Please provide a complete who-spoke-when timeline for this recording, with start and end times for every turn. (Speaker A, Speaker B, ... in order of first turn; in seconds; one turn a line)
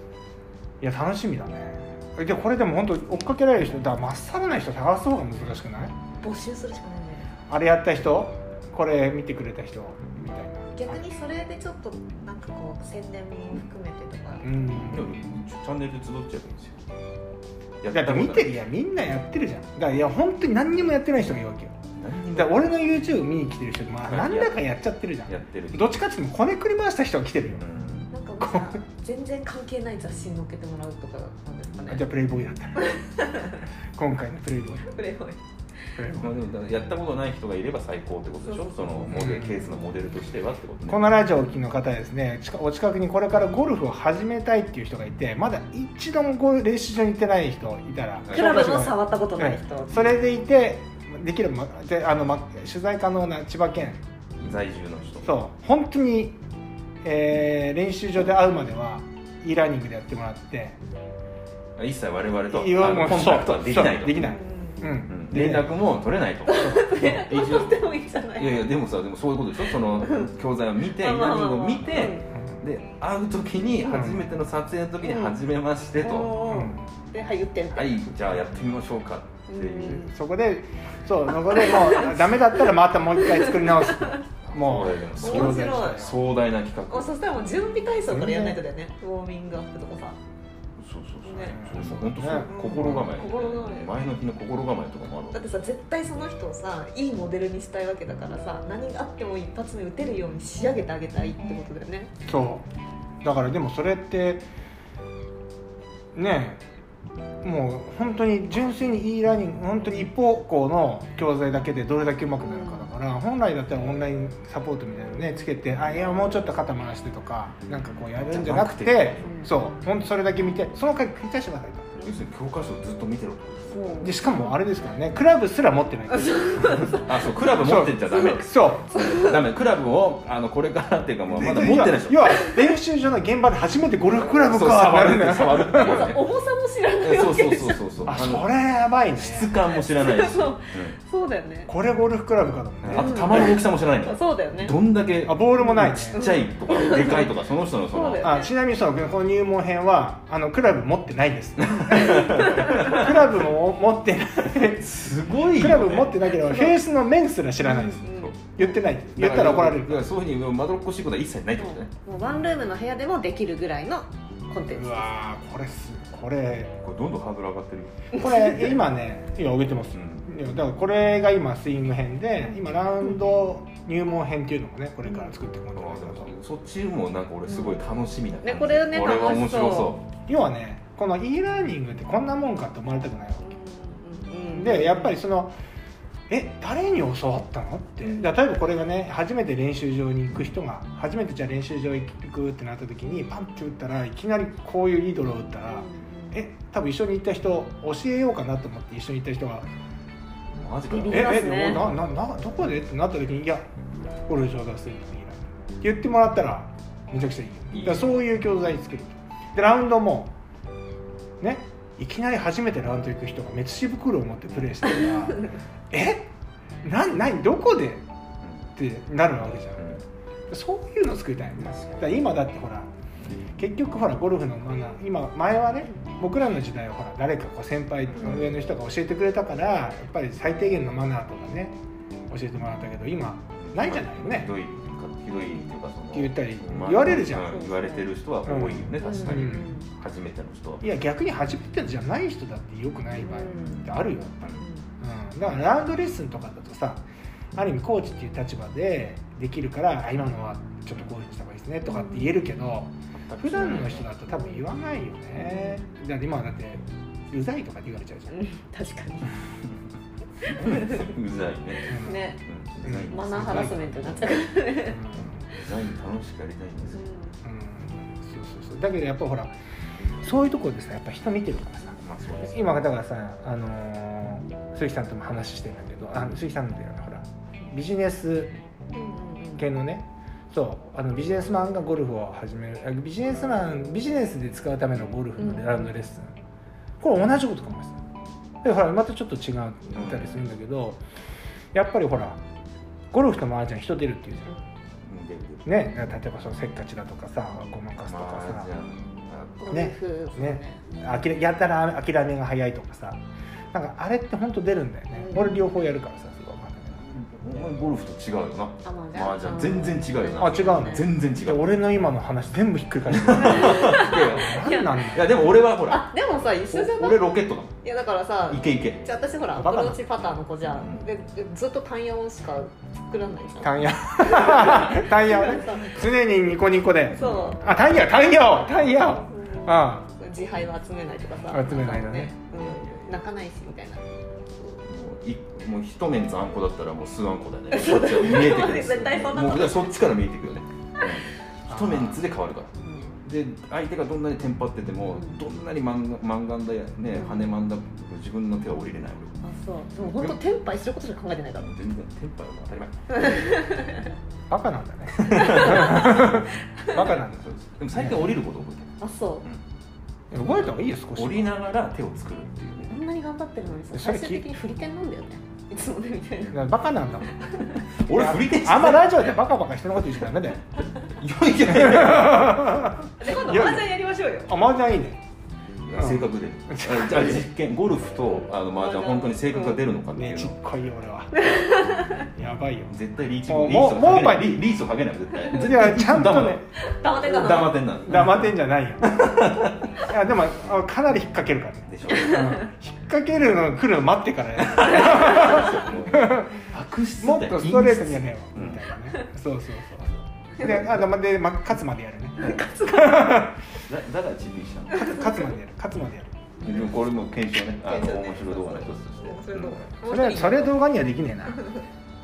Speaker A: 0.8-5.9
Speaker B: 6.2-7.3
Speaker A: 7.5-11.0
Speaker B: 10.8-14.5
Speaker A: 14.4-15.1
Speaker C: 14.7-16.8
Speaker C: 17.8-18.6
Speaker A: 17.9-21.8
Speaker C: 22.0-22.7
Speaker A: 22.4-27.6
Speaker C: 24.1-24.6
Speaker C: 25.3-26.0
Speaker C: 27.6-28.1
Speaker B: 28.1-32.1
Speaker A: 31.9-33.0
Speaker B: 32.8-33.6
Speaker A: 34.0-34.9
Speaker B: 34.8-35.4
Speaker A: 36.0-36.4
Speaker C: 36.1-41.2
Speaker A: 39.1-39.6
Speaker A: 40.9-54.0
Speaker B: 48.3-50.1
Speaker C: 54.4-55.3
Speaker A: 55.2-56.4
Speaker A: 57.0-60.8
Speaker C: 61.8-64.4
Speaker A: 62.5-65.7
Speaker B: 64.2-64.8
Speaker C: 65.1-67.8
Speaker B: 66.5-68.7
Speaker C: 68.4-76.5
Speaker B: 69.9-70.3
Speaker B: 70.9-72.3
Speaker A: 73.9-74.3
Speaker B: 75.0-75.4
Speaker B: 76.0-78.0
Speaker A: 76.4-76.8
Speaker C: 77.7-80.1
Speaker B: 79.5-80.1
Speaker A: 79.8-86.2
Speaker B: 81.5-82.7
Speaker B: 83.2-84.2
Speaker C: 84.4-87.1
Speaker B: 85.2-86.1
Speaker B: 86.9-90.2
Speaker A: 88.1-88.6
Speaker C: 90.8-95.4
Speaker B: 91.2-91.6
Speaker A: 91.5-93.1
Speaker B: 92.4-94.0
Speaker B: 95.3-102.1
Speaker A: 102.3-102.7
Speaker A: 103.2-104.4
Speaker A: 106.2-106.6
Speaker A: 107.4-122.0
Speaker B: 112.4-112.9
Speaker C: 118.2-119.4
Speaker B: 119.2-119.5
Speaker C: 122.0-124.1
Speaker B: 123.7-124.6
Speaker A: 124.0-127.0
Speaker B: 126.1-127.1
Speaker C: 126.8-132.4
Speaker A: 127.5-129.0
Speaker B: 128.1-128.4
Speaker B: 128.9-129.4
Speaker A: 131.3-136.1
Speaker C: 134.3-136.2
Speaker B: 135.8-137.8
Speaker C: 137.0-138.5
Speaker A: 138.1-139.5
Speaker C: 139.2-141.0
Speaker B: 139.9-141.7
Speaker A: 141.7-143.3
Speaker C: 142.8-148.4
Speaker B: 142.9-144.8
Speaker A: 145.2-146.3
Speaker B: 145.6-147.3
Speaker B: 147.9-148.5
Speaker A: 148.2-154.9
Speaker C: 151.6-153.2
Speaker B: 152.2-152.9
Speaker C: 154.8-156.3
Speaker A: 155.5-160.1
Speaker B: 156.4-156.8
Speaker B: 157.6-158.3
Speaker C: 158.1-161.9
Speaker B: 161.6-165.1
Speaker A: 164.7-166.7
Speaker C: 166.8-168.2
Speaker A: 168.1-176.3
Speaker B: 168.1-168.5
Speaker C: 169.9-170.3
Speaker B: 175.1-175.3
Speaker C: 175.8-180.1
Speaker B: 177.5-177.8
Speaker B: 178.4-180.0
Speaker A: 180.3-183.5
Speaker B: 183.4-185.2
Speaker A: 184.5-185.6
Speaker A: 186.3-199.7
Speaker B: 188.0-188.3
Speaker B: 195.7-196.4
Speaker C: 200.5-202.0
Speaker B: 200.9-201.8
Speaker A: 201.1-203.6
Speaker A: 204.3-210.3
Speaker B: 207.7-208.1
Speaker A: 211.4-216.3
Speaker A: 216.8-218.0
Speaker C: 218.4-218.7
Speaker A: 218.8-219.9
Speaker A: 220.5-222.9
Speaker A: 223.6-231.8
Speaker C: 228.1-228.5
Speaker B: 228.2-228.5
Speaker A: 232.3-234.5
Speaker C: 233.6-240.8
Speaker B: 235.4-235.7
Speaker A: 236.1-237.6
Speaker B: 237.4-238.1
Speaker A: 238.5-239.7
Speaker B: 239.0-239.9
Speaker A: 240.8-247.0
Speaker B: 243.2-243.8
Speaker A: 247.6-258.4
Speaker B: 251.8-252.3
Speaker C: 253.3-254.1
Speaker B: 254.3-254.6
Speaker B: 255.4-255.8
Speaker B: 258.3-259.3
Speaker B: 260.4-261.1
Speaker C: 260.5-267.0
Speaker B: 261.9-262.4
Speaker A: 261.9-262.2
Speaker A: 262.8-263.8
Speaker B: 263.1-265.0
Speaker A: 264.9-265.4
Speaker B: 266.9-267.4
Speaker A: 267.4-269.5
Speaker A: 270.2-278.5
Speaker C: 272.0-272.7
Speaker B: 278.9-279.6
Speaker A: 279.6-286.3
Speaker B: 285.4-285.8
Speaker A: 287.0-288.0
Speaker A: 288.6-291.0
Speaker C: 289.9-290.4
Speaker A: 291.7-292.4
Speaker A: 293.1-294.6
Speaker C: 295.0-295.9
Speaker A: 295.6-298.7
Speaker C: 298.0-299.7
Speaker B: 299.6-300.8
Speaker A: 299.7-303.2
Speaker A: 303.7-307.0
Speaker B: 305.1-305.6
Speaker C: 307.0-311.8
Speaker B: 308.8-311.1
Speaker A: 310.4-315.4
Speaker C: 313.1-316.1
Speaker B: 313.3-315.1
Speaker B: 315.9-326.1
Speaker C: 316.7-317.7
Speaker C: 318.5-319.0
Speaker A: 319.6-320.0
Speaker C: 320.8-321.1
Speaker A: 323.6-330.1
Speaker B: 327.1-334.8
Speaker C: 327.2-327.8
Speaker A: 331.5-332.3
Speaker C: 332.5-333.1
Speaker C: 334.8-342.7
Speaker B: 337.7-339.9
Speaker A: 341.7-342.2
Speaker B: 342.8-343.1
Speaker C: 343.2-349.4
Speaker B: 347.2-347.5
Speaker B: 349.4-351.7
Speaker C: 350.0-350.4
Speaker C: 351.6-353.6
Speaker B: 353.1-354.1
Speaker A: 354.5-358.3
Speaker C: 355.2-356.4
Speaker B: 355.2-357.1
Speaker C: 357.4-359.6
Speaker B: 359.0-359.5
Speaker A: 360.3-361.6
Speaker C: 361.1-363.0
Speaker B: 362.9-366.6
Speaker A: 363.9-364.5
Speaker A: 366.5-367.4
Speaker B: 367.4-367.8
Speaker C: 368.0-369.3
Speaker A: 368.1-370.6
Speaker C: 371.1-372.9
Speaker A: 371.7-373.9
Speaker B: 373.2-374.5
Speaker A: 374.5-375.2
Speaker C: 375.8-380.6
Speaker A: 375.9-377.4
Speaker B: 378.3-379.8
Speaker A: 380.1-381.7
Speaker B: 381.3-382.3
Speaker A: 382.2-382.9
Speaker C: 382.9-386.6
Speaker A: 383.5-384.6
Speaker A: 385.5-386.6
Speaker B: 386.8-387.8
Speaker C: 387.2-390.0
Speaker A: 388.1-389.2
Speaker A: 390.0-396.6
Speaker C: 391.9-392.6
Speaker B: 392.1-392.6
Speaker C: 394.7-398.9
Speaker B: 395.4-395.8
Speaker A: 397.2-403.6
Speaker C: 400.6-400.9
Speaker B: 402.4-403.4
Speaker C: 403.2-405.2
Speaker A: 405.0-406.4
Speaker C: 406.6-409.8
Speaker B: 406.6-406.9
Speaker B: 407.7-410.9
Speaker A: 410.1-411.7
Speaker B: 411.6-411.8